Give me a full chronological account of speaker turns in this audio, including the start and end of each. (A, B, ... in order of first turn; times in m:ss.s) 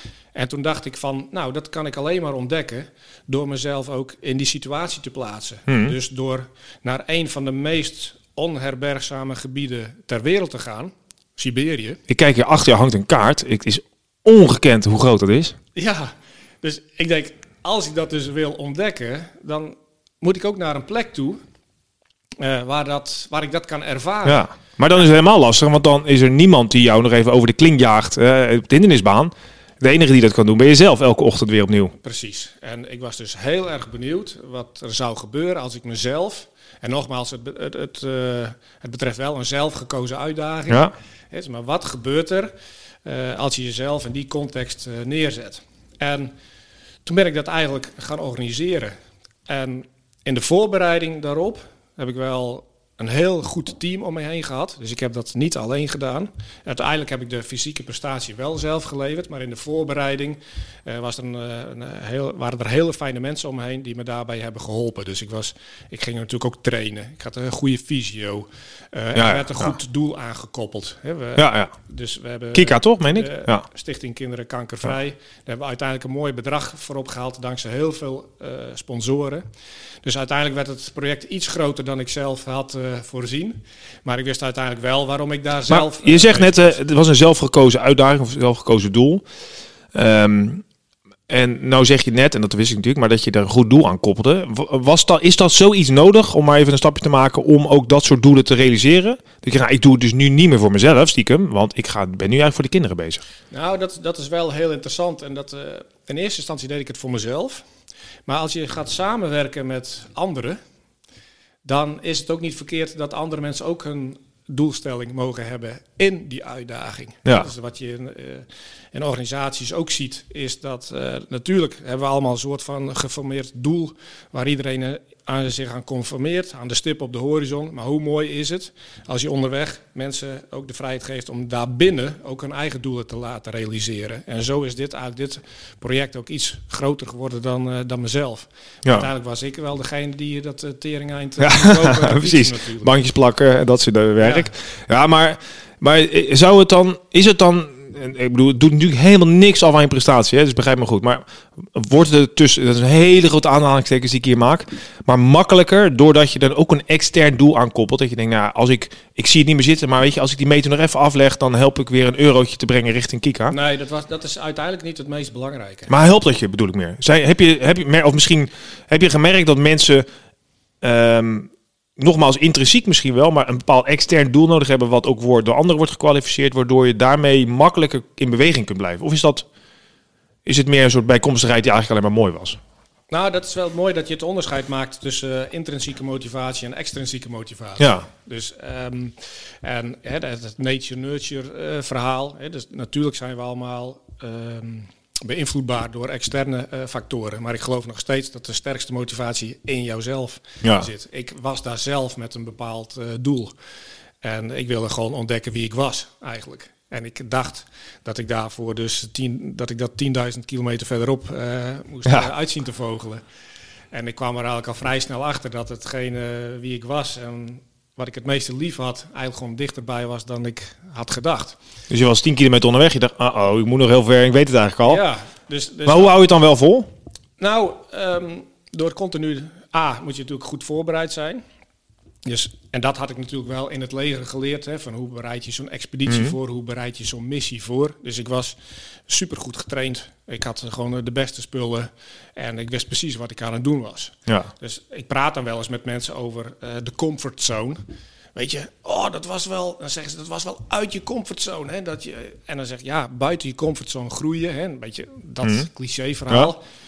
0:00.4-0:12.0 A
0:05.7-0:06.0 B
0:12.1-0:15.6 B
0:15.8-0:21.4 A
0:22.4-0:24.5 A
0:24.2-0:32.0 B
0:32.0-0:42.5 A
0:40.7-0:40.9 B
0:43.0-0:46.3 A
0:47.0-0:49.0 A
0:49.5-1:19.5 A
1:09.1-1:09.7 B
1:11.4-1:11.7 B
1:12.5-1:13.7 B
1:20.0-1:26.7 A
1:25.7-1:29.2 B
1:29.9-1:30.6 B
1:31.3-1:43.2 B
1:43.5-1:47.6 A
1:48.3-1:50.6 A
1:51.6-2:22.9 A
2:21.4-2:43.6 B
2:24.2-2:24.5 A
2:43.5-2:45.9 A
2:45.9-2:50.1 B
2:50.8-2:59.5 B
3:00.4-3:02.6 B
3:03.1-3:23.5 A
3:07.8-3:08.1 B
3:20.6-3:20.9 B
3:24.2-3:33.2 A
3:33.9-3:41.6 A
3:41.9-3:45.0 B
3:44.8-3:46.2 A
3:45.9-3:46.9 B
3:47.4-3:51.4 A
3:52.2-4:07.8 A
3:56.1-3:56.4 B
4:04.3-4:04.5 B
4:08.4-4:16.6 A
4:15.4-4:15.7 B